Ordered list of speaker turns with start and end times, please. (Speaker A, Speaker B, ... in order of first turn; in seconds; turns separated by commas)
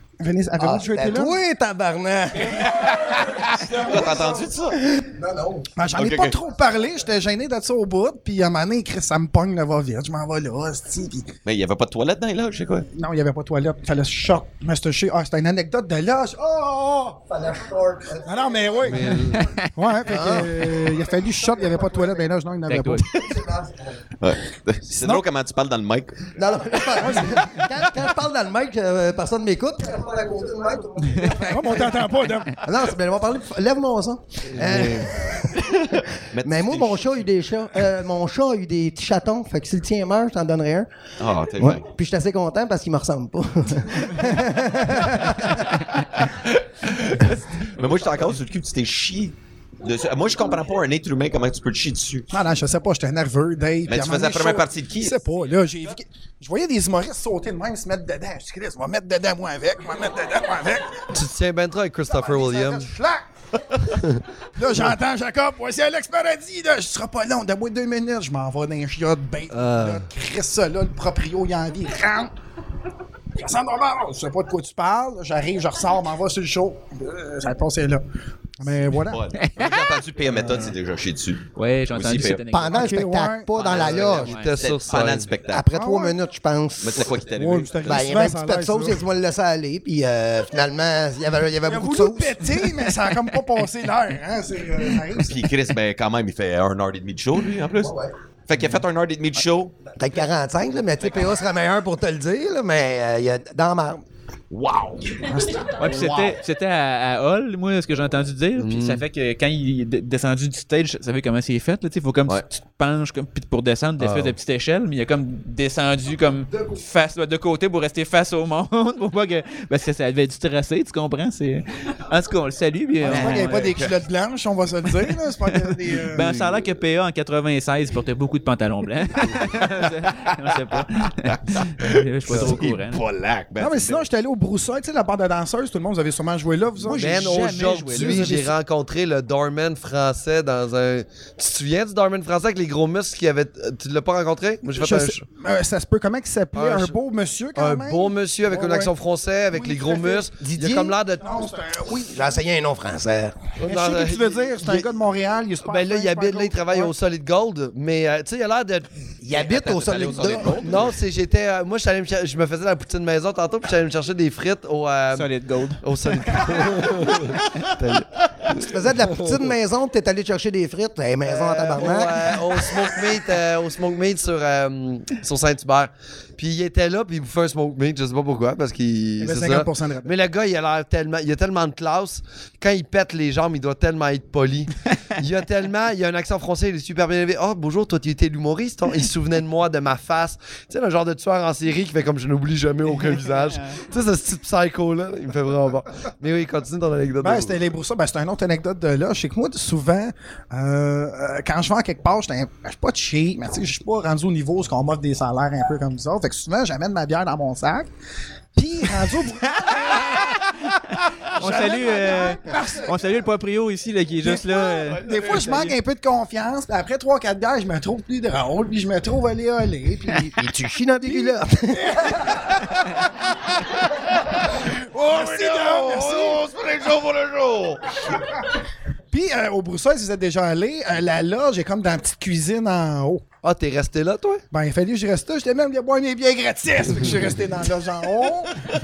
Speaker A: 0.2-1.4, Speaker B: 0.6-5.7, Speaker C: 2.5-4.8, Speaker A: 5.8-11.3, Speaker C: 5.9-6.4, Speaker C: 11.4-12.9, Speaker A: 13.0-17.3, Speaker B: 17.3-18.8, Speaker A: 18.1-23.4, Speaker D: 18.8-19.5, Speaker E: 19.1-19.9, Speaker B: 20.1-21.0, Speaker E: 22.7-23.4, Speaker B: 23.3-23.7, Speaker C: 24.2-26.3, Speaker B: 26.4-32.0, Speaker A: 27.0-27.4, Speaker E: 31.1-31.5, Speaker A: 31.4-32.6, Speaker B: 32.6-40.9, Speaker D: 34.5-35.1, Speaker C: 36.3-37.3, Speaker C: 41.2-41.8, Speaker B: 41.6-45.9, Speaker C: 45.9-52.3, Speaker A: 52.3-61.1, Speaker C: 53.9-55.4, Speaker D: 61.1-62.9, Speaker A: 62.1-64.0, Speaker D: 63.9-64.2, Speaker A: 64.6-72.3, Speaker D: 69.5-70.1, Speaker A: 73.4-78.0, Speaker A: 78.6-79.3, Speaker C: 79.0-82.4, Speaker E: 79.4-79.8, Speaker A: 80.4-80.7, Speaker E: 81.6-83.0, Speaker B: 82.5-84.3, Speaker A: 82.7-83.5, Speaker C: 83.5-85.7, Speaker D: 83.7-85.3, Speaker E: 84.3-84.5, Speaker B: 85.5-87.1, Speaker A: 85.7-86.2, Speaker C: 86.8-88.1, Speaker A: 87.3-89.0, Speaker B: 87.9-92.7, Speaker A: 91.7-95.5, Speaker C: 95.2-99.8, Speaker B: 100.0-104.0, Speaker C: 104.5-106.3, Speaker A: 105.3-105.6, Speaker E: 105.8-123.7, Speaker D: 108.6-109.0, Speaker D: 114.0-114.4, Speaker A: 123.0-126.2, Speaker C: 123.0-124.0, Speaker E: 125.5-133.0, Speaker D: 126.1-126.7, Speaker C: 131.2-134.1, Speaker D: 132.3-132.6, Speaker A: 133.6-137.1, Speaker E: 136.8-138.5, Speaker D: 136.9-145.2, Speaker A: 144.7-148.9, Speaker D: 146.5-147.0, Speaker D: 147.6-151.5, Speaker A: 149.5-150.3, Speaker B: 150.4-151.0, Speaker A: 151.2-152.3, Speaker B: 151.9-153.5, Speaker D: 153.6-154.9, Speaker A: 153.6-156.9, Speaker D: 155.6-158.9, Speaker B: 159.2-160.8, Speaker C: 159.3-160.9, Speaker D: 160.6-169.5, Speaker E: 165.1-167.7, Speaker B: 168.6-172.4, Speaker D: 171.2-197.6, Speaker A: 179.2-180.1, Speaker E: 193.3-193.8, Speaker A: 197.2-207.9, Speaker A: 208.6-210.5, Speaker E: 209.6-215.7, Speaker A: 211.3-213.1, Speaker A: 214.2-220.4, Speaker C: 215.0-215.7, Speaker B: 220.4-222.3, Speaker A: 221.0-223.0, Speaker C: 223.6-228.2, Speaker A: 224.6-226.4, Speaker A: 229.1-233.2, Speaker D: 233.4-234.4, Speaker A: 234.5-238.7